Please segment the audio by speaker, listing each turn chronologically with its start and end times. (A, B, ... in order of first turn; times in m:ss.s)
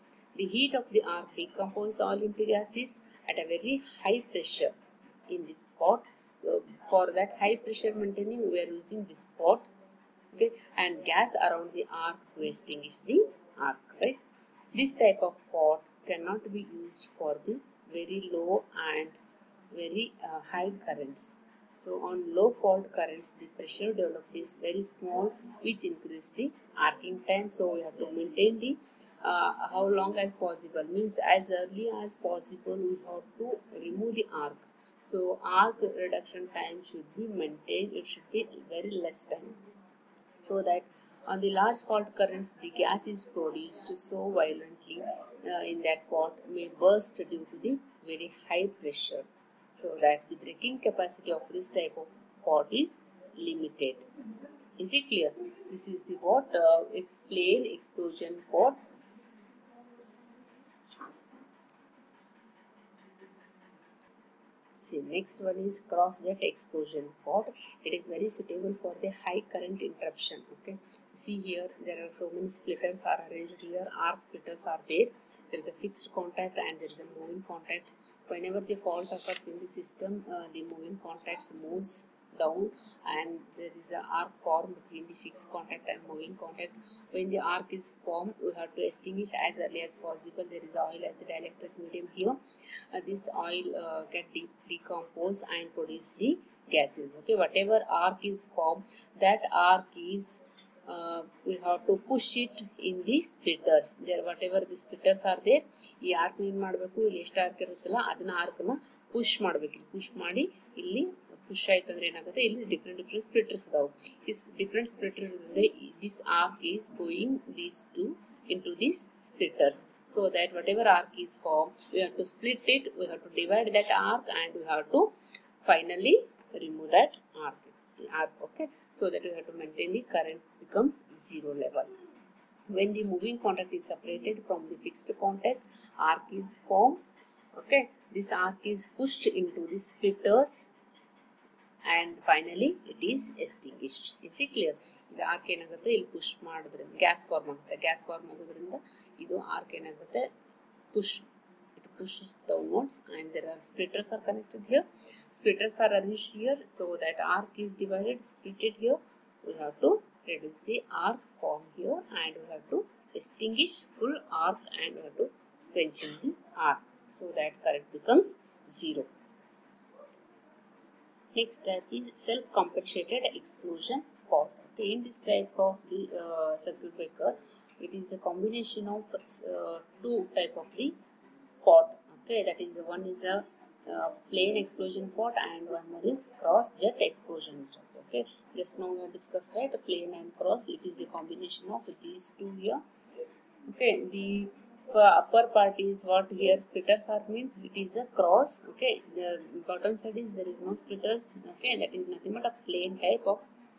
0:00.4-0:04.7 A
0:05.3-0:09.7 A
0:10.3-0:14.2 A
0:14.7-0:19.2 A
0:19.7-0:39.6 A
0:40.4-0:54.1 A
0:54.8-0:58.8 A
1:04.8-1:32.4 A
1:32.9-2:11.9 A
2:12.7-2:17.0 A
2:17.5-2:20.7 A
2:21.8-2:30.3 A
2:30.9-2:49.1 A
2:51.4-3:01.0 A
3:01.6-3:12.8 A
3:13.7-3:23.4 A